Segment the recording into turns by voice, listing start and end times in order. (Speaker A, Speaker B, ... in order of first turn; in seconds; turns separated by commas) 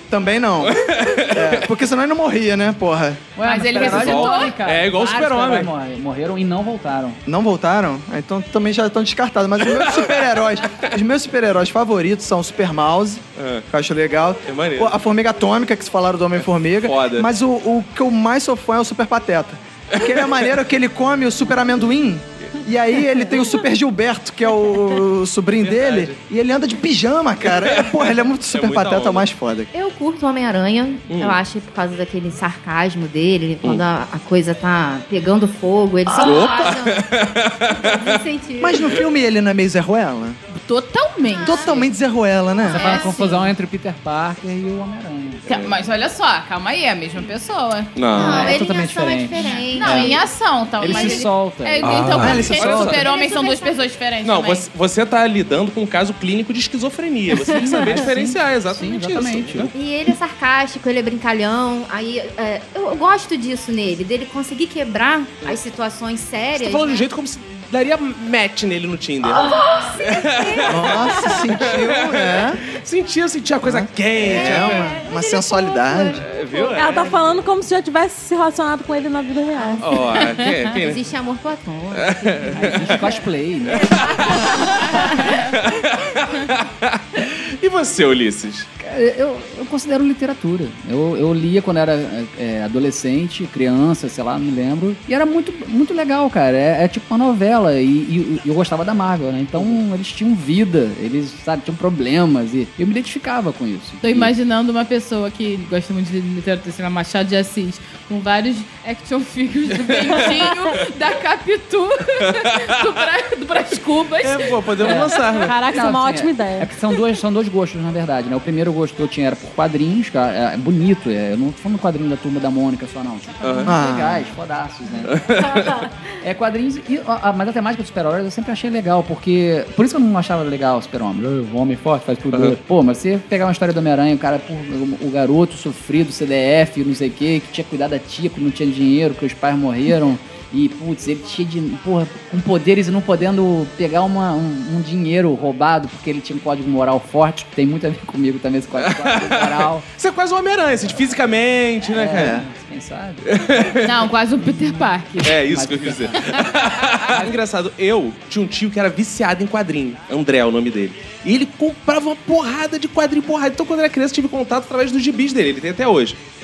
Speaker A: 0.1-3.3, Speaker B: 0.6-1.7, Speaker C: 3.4-7.2, Speaker D: 3.4-4.8, Speaker B: 3.8-5.7, Speaker A: 7.3-29.7, Speaker B: 9.7-10.2, Speaker B: 13.4-13.7, Speaker B: 14.5-14.9, Speaker B: 16.4-17.3, Speaker B: 19.9-20.5, Speaker B: 25.6-26.2, Speaker B: 27.5-29.2, Speaker E: 29.7-37.1, Speaker B: 31.1-31.4, Speaker D: 36.1-36.6, Speaker B: 36.2-38.2, Speaker E: 37.7-39.0, Speaker A: 38.6-40.4, Speaker D: 40.5-41.8, Speaker E: 41.3-41.9, Speaker A: 41.4-43.1, Speaker E: 42.6-43.5, Speaker C: 42.7-45.5, Speaker D: 45.5-47.9, Speaker B: 45.5-45.8, Speaker B: 48.0-48.5, Speaker E: 48.1-50.2, Speaker C: 48.2-50.2, Speaker D: 49.4-54.6, Speaker C: 50.8-52.2, Speaker A: 52.1-52.9, Speaker B: 52.3-53.0, Speaker E: 52.3-53.9, Speaker B: 54.2-59.7, Speaker E: 57.4-57.9, Speaker C: 57.5-59.7, Speaker E: 59.7-67.1, Speaker B: 66.5-69.5, Speaker E: 69.4-70.1, Speaker B: 70.0-74.9, Speaker F: 70.3-71.5, Speaker A: 70.7-72.6, Speaker A: 73.6-76.2, Speaker E: 74.3-76.8, Speaker B: 76.2-77.4, Speaker F: 76.8-79.8, Speaker E: 79.5-79.8, Speaker B: 79.8-81.0, Speaker E: 80.8-83.2, Speaker B: 81.9-83.1, Speaker C: 82.6-84.0, Speaker B: 83.8-88.7, Speaker E: 84.3-84.6, Speaker D: 85.2-85.5, Speaker C: 88.8-104.3, Speaker D: 104.0-114.7, Speaker B: 109.8-110.3, Speaker B: 112.4-112.7, Speaker B: 114.2-115.6, Speaker C: 114.8-125.1, Speaker F: 115.2-116.7, Speaker B: 123.4-123.7, Speaker A: 123.7-124.3, Speaker B: 125.1-125.8, Speaker C: 126.2-149.8, Speaker B: 132.3-132.6, Speaker B: 148.8-152.4, Speaker C: 151.9-153.3, Speaker A: 152.1-152.4, Speaker B: 153.3-153.9, Speaker D: 153.8-155.3, Speaker C: 154.4-157.3, Speaker B: 155.2-166.2